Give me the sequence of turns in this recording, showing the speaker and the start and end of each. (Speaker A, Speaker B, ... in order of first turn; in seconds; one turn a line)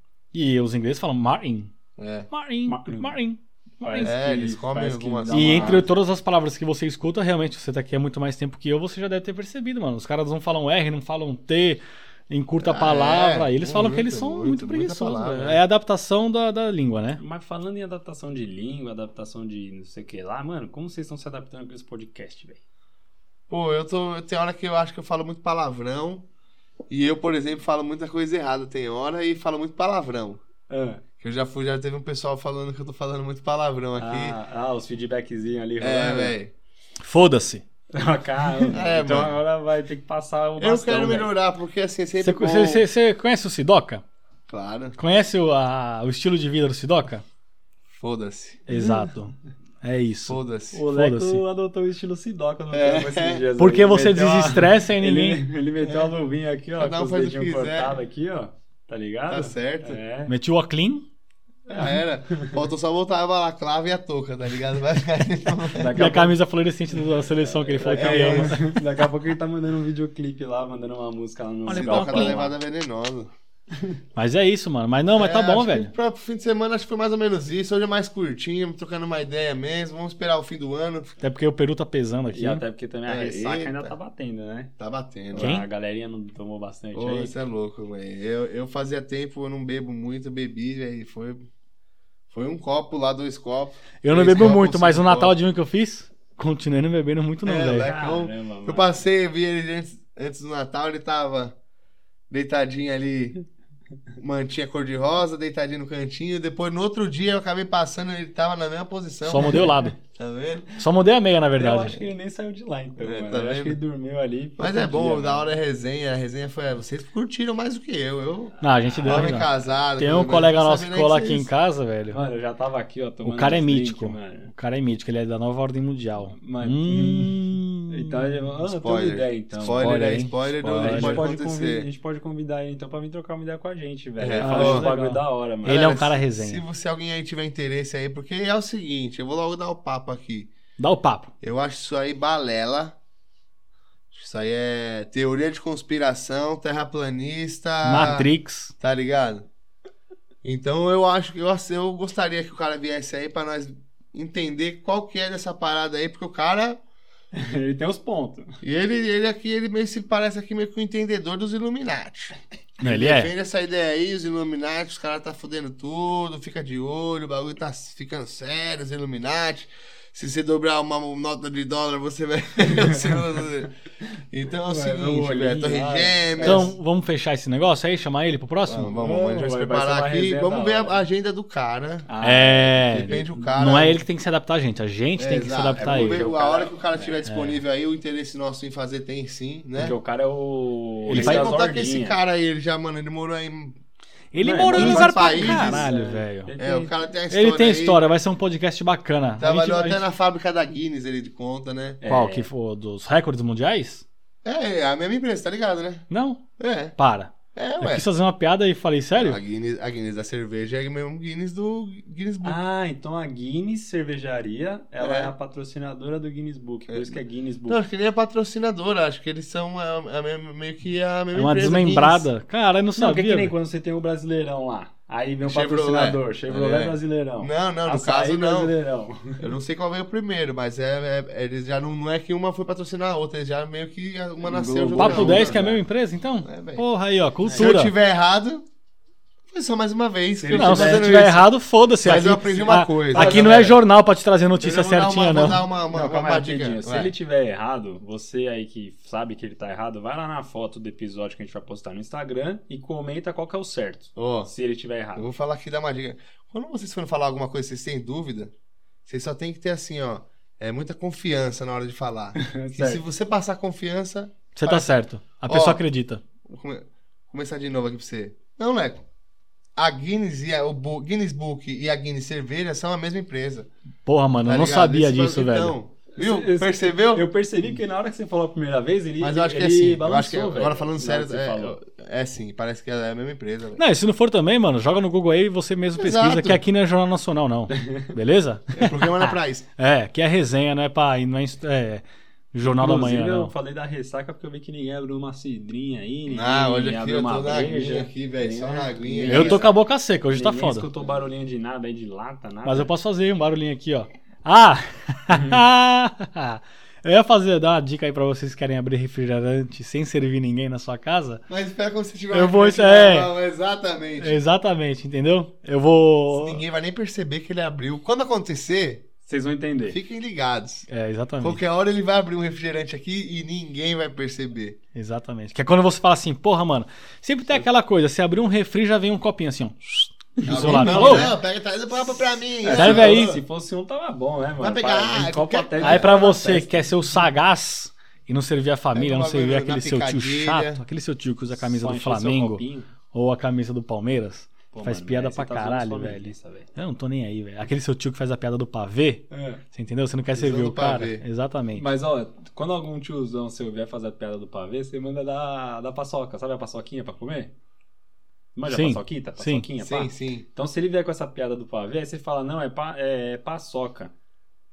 Speaker A: 0.3-1.7
Speaker B: 2.0-2.3
Speaker A: 2.3-4.1
Speaker C: 2.7-3.2
Speaker C: 3.8-5.9
Speaker B: 4.0-5.9
Speaker A: 5.3-17.2
Speaker B: 12.6-15.6
Speaker C: 17.2-22.6
Speaker B: 23.5-26.2
Speaker B: 26.9-30.4
Speaker C: 30.7-31.0
Speaker B: 31.2-34.4
Speaker C: 34.0-36.4
Speaker B: 35.8-36.5
Speaker A: 37.0-37.6
Speaker C: 37.9-41.3
Speaker B: 38.7-39.4
Speaker B: 40.6-42.9
Speaker A: 42.2-44.0
Speaker B: 44.5-45.0
Speaker A: 45.0-47.2
Speaker B: 47.9-48.6
Speaker A: 48.7-51.4
Speaker C: 48.7-49.1
Speaker B: 50.3-50.8
Speaker C: 50.7-60.3
Speaker B: 52.7-53.5
Speaker A: 53.6-55.4
Speaker B: 55.8-56.1
Speaker B: 56.8-57.9
Speaker B: 59.3-60.0
Speaker A: 60.3-61.0
Speaker B: 61.7-65.9
Speaker C: 61.7-62.6
Speaker C: 65.8-66.4
Speaker A: 65.9-68.8
Speaker C: 67.0-72.5
Speaker B: 67.9-68.6
Speaker A: 71.7-72.4
Speaker B: 71.7-73.3
Speaker C: 73.7-74.0
Speaker A: 74.2-75.9
Speaker B: 75.2-81.2
Speaker A: 81.2-82.6
Speaker C: 82.3-84.7
Speaker B: 83.1-84.0
Speaker B: 84.8-85.5
Speaker C: 85.3-87.4
Speaker A: 85.4-85.7
Speaker B: 86.9-91.5
Speaker B: 92.3-95.3
Speaker A: 94.0-97.9
Speaker B: 97.4-101.6
Speaker C: 97.8-99.0
Speaker B: 102.3-103.4
Speaker B: 104.2-110.7
Speaker A: 109.2-110.0
Speaker C: 109.4-109.9
Speaker A: 110.8-112.0
Speaker C: 111.6-115.5
Speaker B: 113.0-113.8
Speaker B: 114.6-121.5
Speaker A: 118.6-122.2
Speaker C: 118.9-119.4
Speaker C: 122.1-124.5
Speaker A: 123.2-128.3
Speaker C: 126.3-130.0
Speaker B: 128.7-131.9
Speaker A: 129.6-131.2
Speaker C: 130.8-136.0
Speaker B: 134.2-134.9
Speaker A: 134.4-136.6
Speaker B: 135.7-140.5
Speaker A: 140.8-141.3
Speaker B: 141.4-143.0
Speaker B: 144.1-148.3
Speaker A: 147.8-148.7
Speaker B: 148.8-149.5
Speaker B: 150.4-156.8
Speaker C: 157.3-158.6
Speaker B: 158.6-173.7
Speaker A: 162.8-163.3
Speaker C: 172.7-173.0
Speaker B: 174.3-176.7
Speaker C: 174.7-176.7
Speaker A: 176.4-178.9
Speaker B: 178.7-182.1
Speaker C: 178.9-181.0
Speaker C: 182.1-183.4
Speaker A: 182.2-186.2
Speaker B: 182.8-184.0
Speaker B: 185.2-189.9
Speaker C: 185.7-187.2
Speaker A: 187.2-187.6
Speaker C: 189.8-192.2
Speaker A: 191.1-191.5
Speaker B: 191.1-193.8
Speaker A: 194.3-196.5
Speaker C: 194.4-196.9
Speaker B: 194.7-195.9
Speaker B: 196.6-198.0
Speaker A: 197.3-200.0
Speaker B: 199.4-202.0
Speaker C: 202.0-202.5
Speaker A: 202.1-204.0
Speaker B: 204.4-206.1
Speaker A: 206.1-206.4
Speaker B: 206.6-206.9
Speaker A: 207.0-209.4
Speaker B: 207.5-208.0
Speaker B: 209.2-212.6
Speaker C: 212.4-217.8
Speaker B: 215.0-215.3
Speaker B: 216.9-222.3
Speaker A: 221.3-223.5
Speaker C: 223.0-229.5
Speaker B: 225.4-228.7
Speaker B: 229.4-235.7
Speaker C: 234.4-235.8
Speaker A: 234.9-237.9
Speaker B: 236.4-236.8
Speaker B: 237.5-238.7
Speaker B: 239.5-241.5
Speaker C: 240.4-241.2
Speaker A: 240.5-245.7
Speaker B: 242.0-243.8
Speaker C: 242.5-243.7
Speaker B: 244.6-247.1
Speaker C: 245.8-255.3
Speaker B: 254.2-254.5
Speaker B: 255.2-258.5
Speaker B: 259.1-264.9
Speaker C: 262.4-263.0
Speaker A: 264.5-266.2
Speaker B: 265.5-265.8
Speaker B: 266.4-269.0
Speaker B: 269.8-273.7
Speaker A: 274.1-275.8
Speaker B: 274.4-277.3
Speaker C: 276.1-281.8
Speaker B: 279.2-283.8
Speaker A: 283.8-293.5
Speaker B: 286.0-286.6
Speaker C: 287.7-288.1
Speaker B: 288.7-289.6
Speaker C: 292.6-299.7
Speaker B: 296.3-299.7
Speaker A: 299.3-300.9
Speaker C: 300.3-302.9
Speaker A: 302.6-311.4
Speaker C: 305.3-305.6
Speaker B: 311.5-314.4
Speaker A: 312.3-313.3
Speaker A: 314.2-316.6
Speaker B: 316.3-319.1
Speaker C: 319.2-320.0
Speaker B: 319.9-320.9
Speaker A: 320.9-321.6
Speaker B: 321.4-324.8
Speaker A: 324.9-331.3
Speaker C: 330.4-331.4
Speaker B: 330.5-333.4
Speaker C: 332.6-337.2
Speaker A: 332.7-333.3
Speaker B: 334.6-336.3
Speaker A: 335.8-351.9
Speaker B: 338.9-340.8
Speaker C: 341.6-342.9
Speaker C: 344.7-346.7
Speaker C: 349.3-349.6
Speaker B: 350.3-351.2
Speaker C: 351.8-357.5
Speaker C: 358.5-364.1
Speaker A: 358.7-359.6
Speaker B: 359.8-360.5